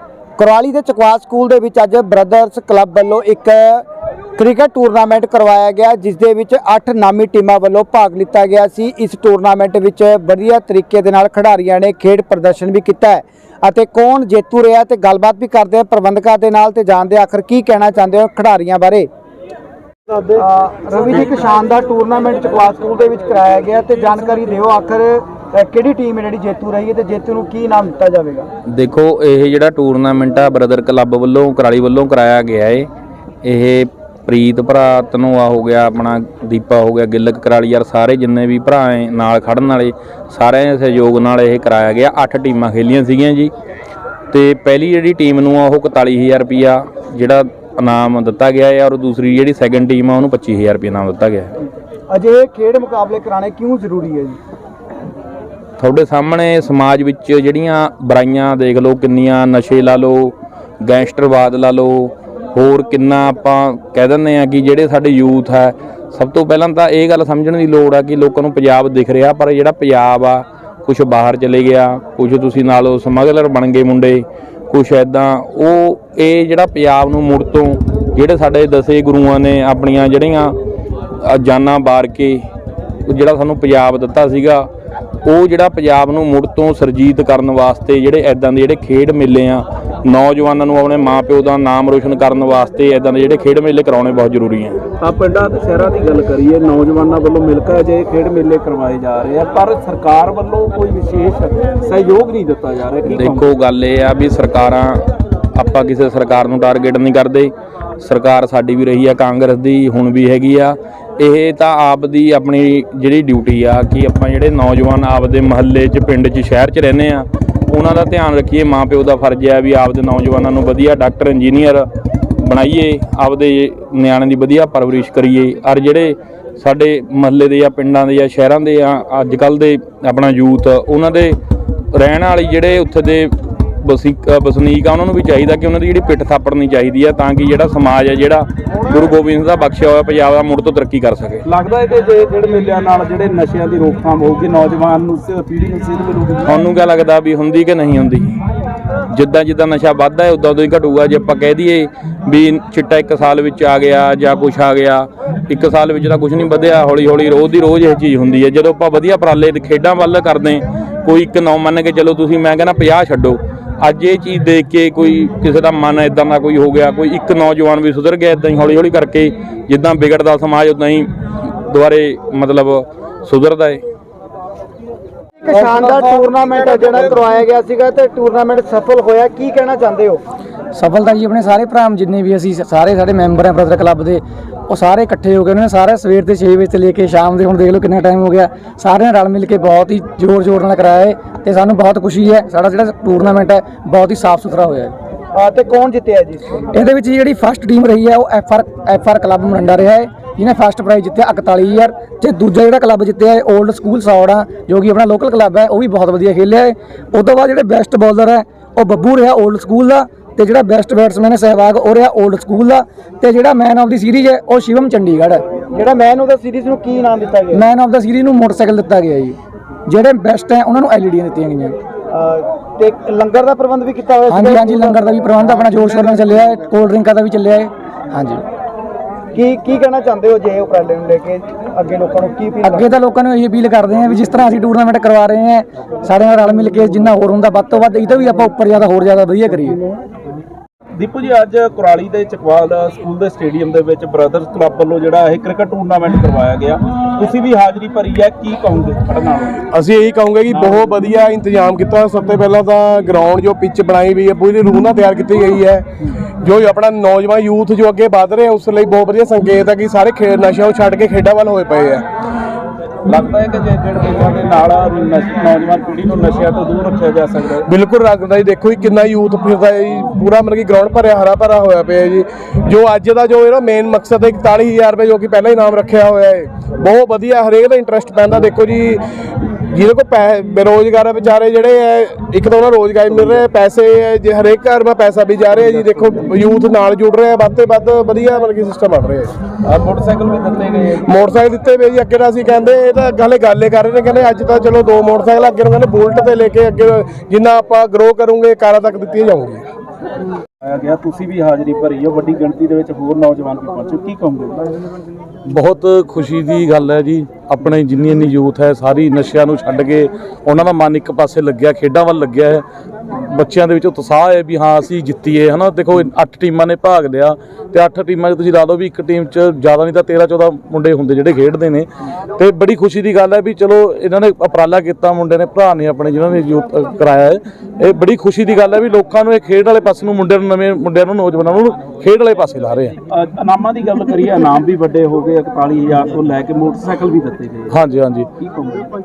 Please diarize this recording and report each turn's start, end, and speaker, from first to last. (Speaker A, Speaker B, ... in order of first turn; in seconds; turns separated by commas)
Speaker A: 0.4-3.8, Speaker A: 4.4-19.1, Speaker A: 20.3-28.5, Speaker B: 28.7-32.9, Speaker B: 33.4-43.5, Speaker B: 44.3-51.5, Speaker A: 52.1-54.4, Speaker B: 55.8-80.6, Speaker B: 81.2-82.4, Speaker B: 83.1-84.7, Speaker B: 85.2-94.8, Speaker C: 95.0-103.5, Speaker B: 103.0-105.0, Speaker B: 105.5-131.4, Speaker B: 131.9-141.4, Speaker C: 141.5-146.6, Speaker B: 146.4-148.4, Speaker B: 149.1-173.8, Speaker A: 175.4-180.2, Speaker D: 180.7-194.9, Speaker A: 195.3-196.6, Speaker D: 196.7-215.4, Speaker A: 215.7-217.6, Speaker D: 217.5-221.8, Speaker A: 222.1-225.0, Speaker D: 224.3-228.4, Speaker A: 229.3-232.9, Speaker D: 232.6-239.8, Speaker C: 241.0-249.6, Speaker E: 249.7-255.8, Speaker C: 250.5-250.8, Speaker E: 256.4-262.1, Speaker C: 263.1-267.7, Speaker E: 267.7-289.3, Speaker C: 285.6-286.3, Speaker C: 289.6-291.2, Speaker E: 291.1-299.6, Speaker C: 300.6-304.7, Speaker F: 305.5-332.9, Speaker C: 333.1-337.8, Speaker F: 337.7-338.3, Speaker C: 338.4-338.9